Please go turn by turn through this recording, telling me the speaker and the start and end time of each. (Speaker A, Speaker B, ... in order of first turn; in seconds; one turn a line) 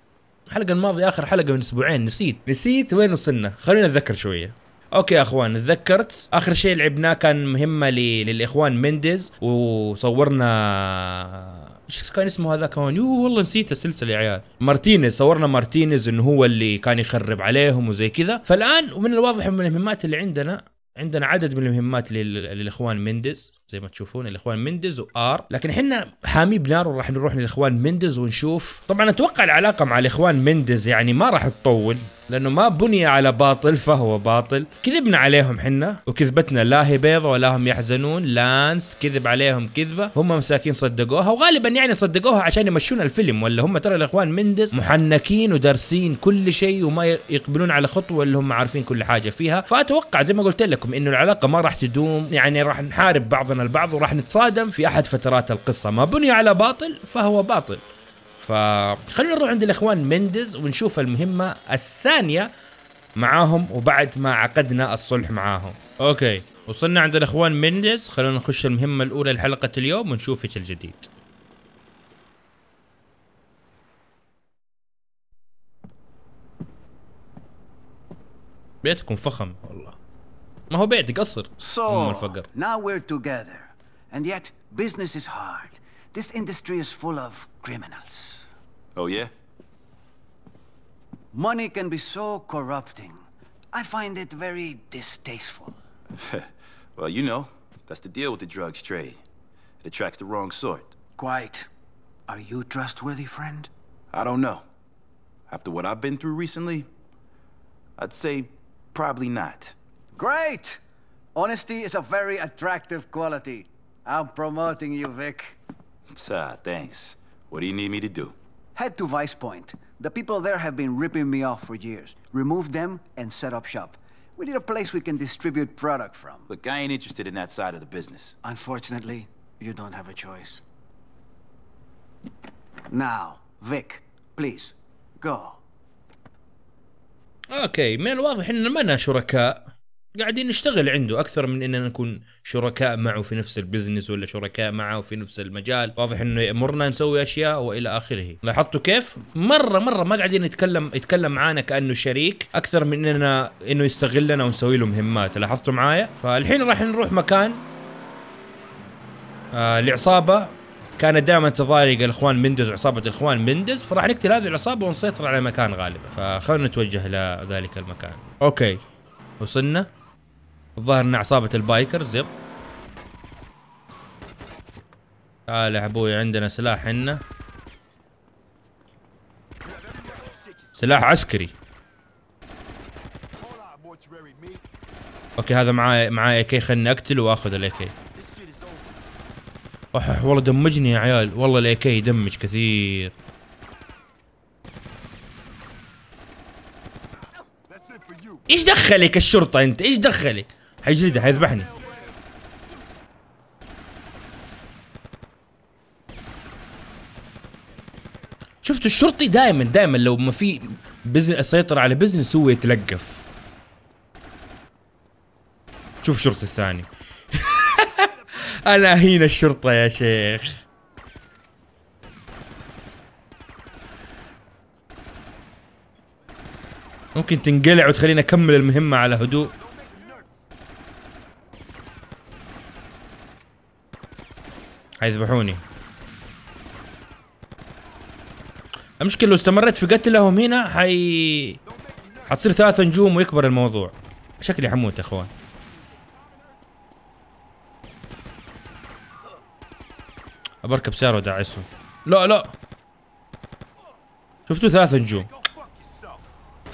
Speaker A: 0.5-57.8
Speaker A: 58.4-62.5
Speaker A: 63.1-71.1
Speaker A: 78.8-80.0
Speaker A: 80.7-82.5
Speaker B: 81.6-82.2
Speaker C: 81.9-88.5
Speaker B: 88.9-89.3
Speaker C: 91.3-95.8
Speaker B: 96.2-99.2
Speaker B: 99.8-100.9
Speaker C: 101.2-101.7
Speaker C: 102.3-103.7
Speaker B: 104.1-104.6
Speaker B: 105.5-106.9
Speaker B: 108.0-109.7
Speaker C: 110.1-110.8
Speaker C: 111.3-115.6
Speaker B: 116.1-118.3
Speaker C: 118.7-126.5
Speaker B: 126.5-128.3
Speaker C: 128.4-130.6
Speaker C: 132.9-135.6
Speaker A: 137.5-157.6
Speaker A: 159.5-168.8
Speaker A: 169.4-169.9
Speaker A: 170.8-172.3
Speaker A: 175.5-177.2
Speaker B: 179.7-180.8
Speaker A: 180.8-181.5
Speaker B: 183.4-184.6
Speaker A: 185.4-187.9
Speaker B: 188.1-188.9
Speaker A: 189.9-193.1
Speaker B: 197.7-198.4
Speaker A: 198.5-201.7
Speaker A: 208.6-213.2
Speaker A: 216.0-218.1
Speaker A: 218.6-220.5
Speaker A: 227.1-229.5
Speaker B: 229.6-230.3
Speaker A: 235.0-235.6
Speaker A: 239.0-241.6
Speaker B: 241.7-242.3
Speaker A: 242.3-245.3
Speaker A: 250.6-252.5
Speaker A: 254.5-255.3
Speaker B: 255.2-256.2